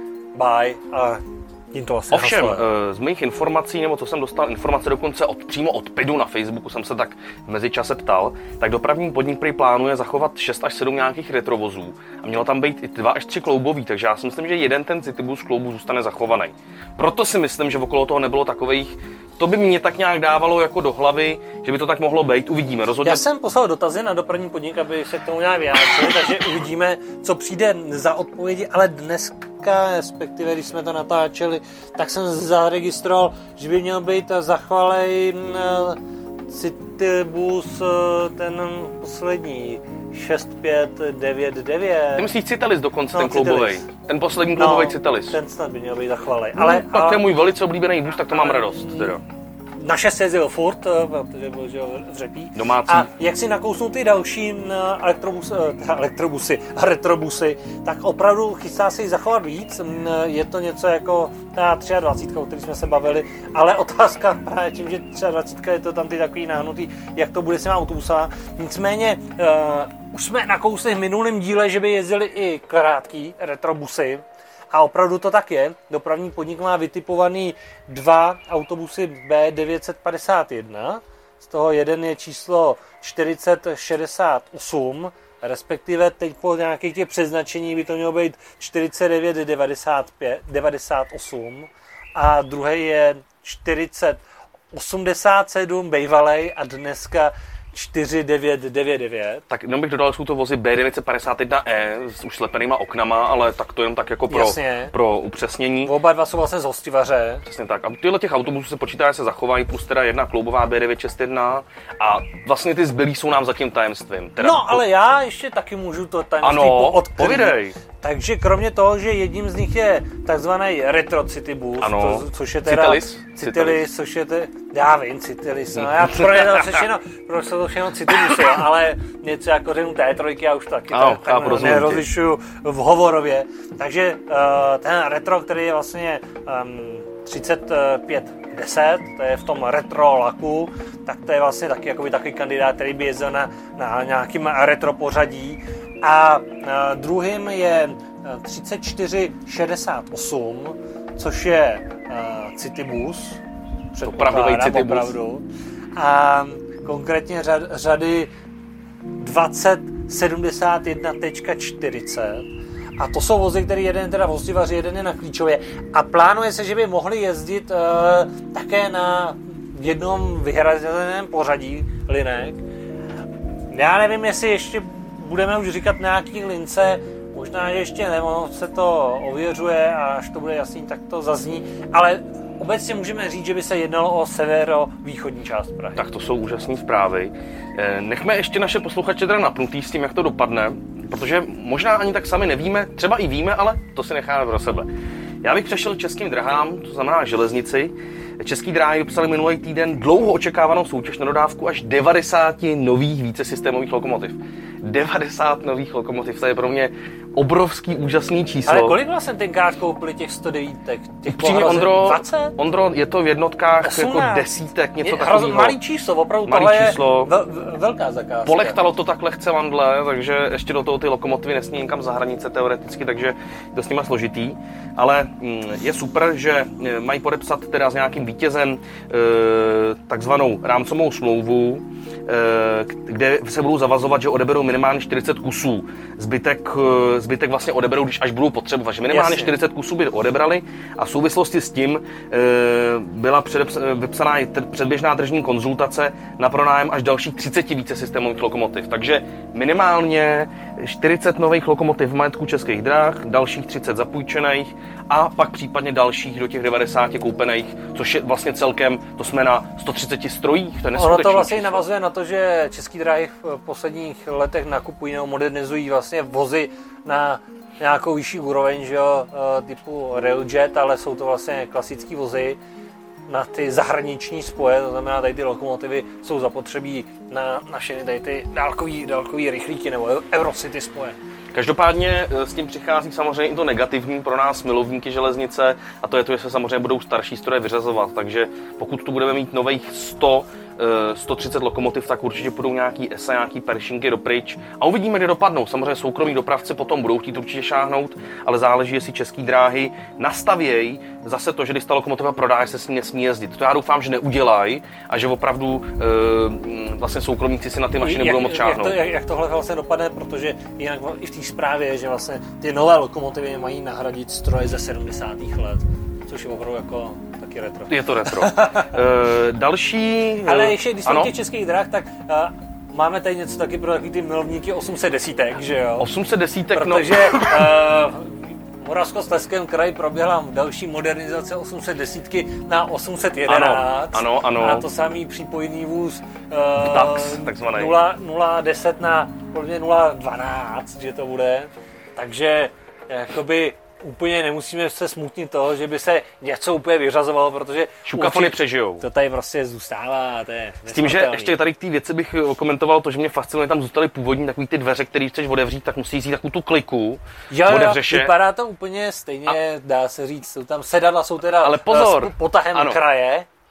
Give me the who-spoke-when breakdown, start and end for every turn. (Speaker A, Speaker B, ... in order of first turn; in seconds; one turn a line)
Speaker A: 0.3-2.6
Speaker B: 2.1-23.2
Speaker A: 23.0-42.3
Speaker B: 42.1-45.4
Speaker A: 43.1-43.8
Speaker A: 44.5-47.3
Speaker B: 46.5-49.2
Speaker A: 48.3-49.2
Speaker A: 49.8-99.4
Speaker B: 52.5-53.1
Speaker B: 99.5-105.9
Speaker A: 104.3-104.9
Speaker A: 105.8-107.4
Speaker B: 107.4-114.8
Speaker A: 114.4-153.4
Speaker B: 116.4-117.8
Speaker B: 121.8-123.8
Speaker B: 125.8-126.8
Speaker B: 130.9-132.0
Speaker A: 153.9-158.3
Speaker B: 154.0-155.1
Speaker A: 159.2-162.5
Speaker A: 163.0-172.6
Speaker A: 173.7-186.0
Speaker B: 185.9-194.9
Speaker B: 195.4-208.9
Speaker A: 208.7-212.6
Speaker B: 211.3-215.8
Speaker A: 213.8-218.8
Speaker B: 216.5-217.3
Speaker B: 218.4-261.8
Speaker A: 239.1-239.5
Speaker A: 260.9-272.6
Speaker A: 273.3-281.1
Speaker B: 281.5-309.0
Speaker A: 308.0-319.0
Speaker B: 317.9-321.3
Speaker A: 320.4-326.1
Speaker B: 326.0-327.6
Speaker A: 326.7-351.6
Speaker B: 333.5-334.8
Speaker B: 336.8-337.9
Speaker B: 348.0-349.0
Speaker B: 350.9-358.3
Speaker A: 357.5-363.5
Speaker B: 361.5-363.0